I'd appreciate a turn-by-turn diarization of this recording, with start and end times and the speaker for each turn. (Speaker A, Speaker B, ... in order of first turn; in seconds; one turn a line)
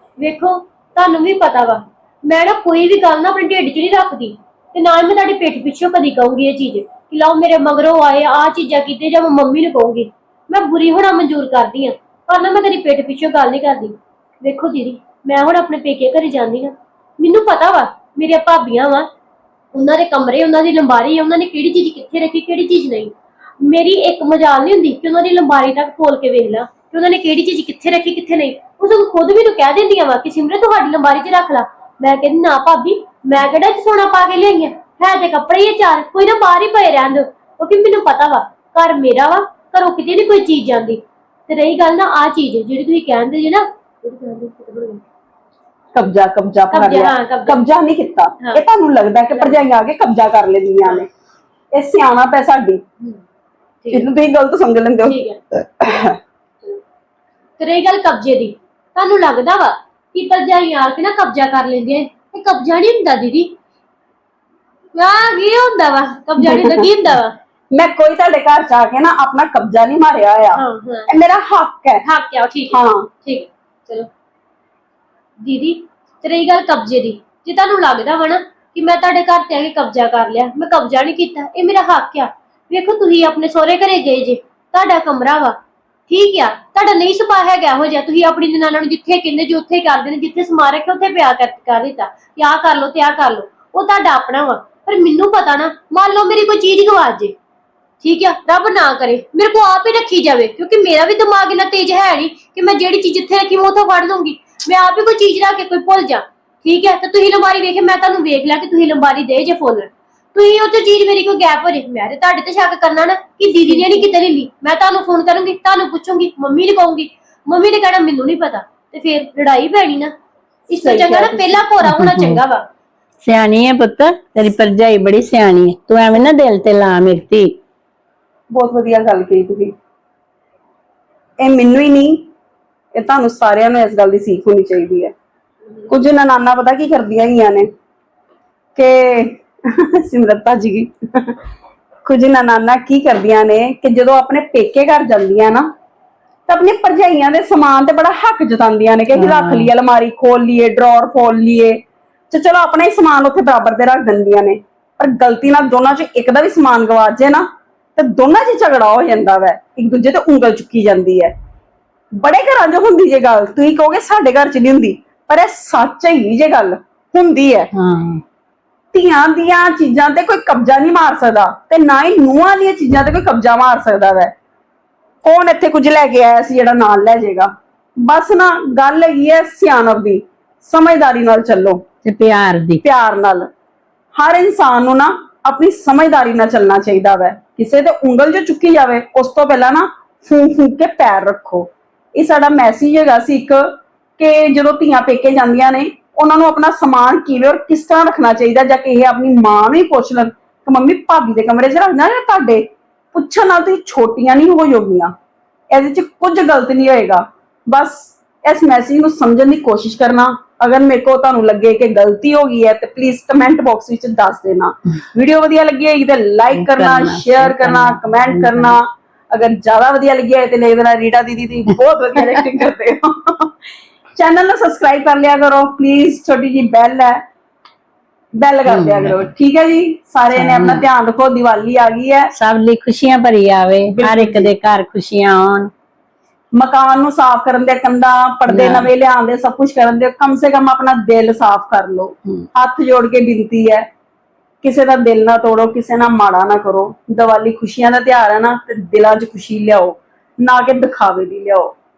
Speaker A: 0.2-19.1
Speaker A: 19.7-45.0
Speaker B: 45.9-51.1
Speaker A: 46.7-47.6
Speaker A: 49.3-49.6
Speaker B: 51.7-52.8
Speaker A: 53.8-54.1
Speaker B: 53.9-56.2
Speaker A: 55.0-55.4
Speaker A: 57.6-63.5
Speaker A: 64.9-67.3
Speaker B: 66.4-66.9
Speaker B: 67.7-72.0
Speaker A: 70.5-71.1
Speaker A: 72.0-74.1
Speaker B: 72.7-73.1
Speaker A: 75.4-85.6
Speaker A: 86.1-97.3
Speaker A: 98.0-120.1
Speaker C: 113.8-114.0
Speaker A: 120.7-122.6
Speaker B: 120.7-121.7
Speaker C: 121.8-122.4
Speaker C: 123.2-127.6
Speaker B: 128.5-129.7
Speaker B: 131.4-132.2
Speaker B: 132.9-135.1
Speaker B: 135.9-137.7
Speaker B: 138.8-141.4
Speaker B: 142.1-145.7
Speaker B: 146.5-157.4
Speaker C: 149.1-149.7
Speaker B: 157.9-161.3
Speaker B: 162.1-167.7
Speaker C: 167.7-168.2
Speaker B: 168.9-174.3
Speaker B: 175.2-181.8
Speaker C: 182.0-182.8
Speaker B: 182.8-183.5
Speaker B: 184.2-205.1
Speaker B: 205.7-223.5
Speaker C: 216.5-218.8
Speaker B: 224.2-227.2
Speaker B: 228.3-232.3
Speaker C: 228.7-229.3
Speaker C: 230.3-230.8
Speaker C: 232.3-235.7
Speaker B: 233.9-234.5
Speaker B: 236.6-243.8
Speaker C: 238.5-238.9
Speaker B: 244.6-251.7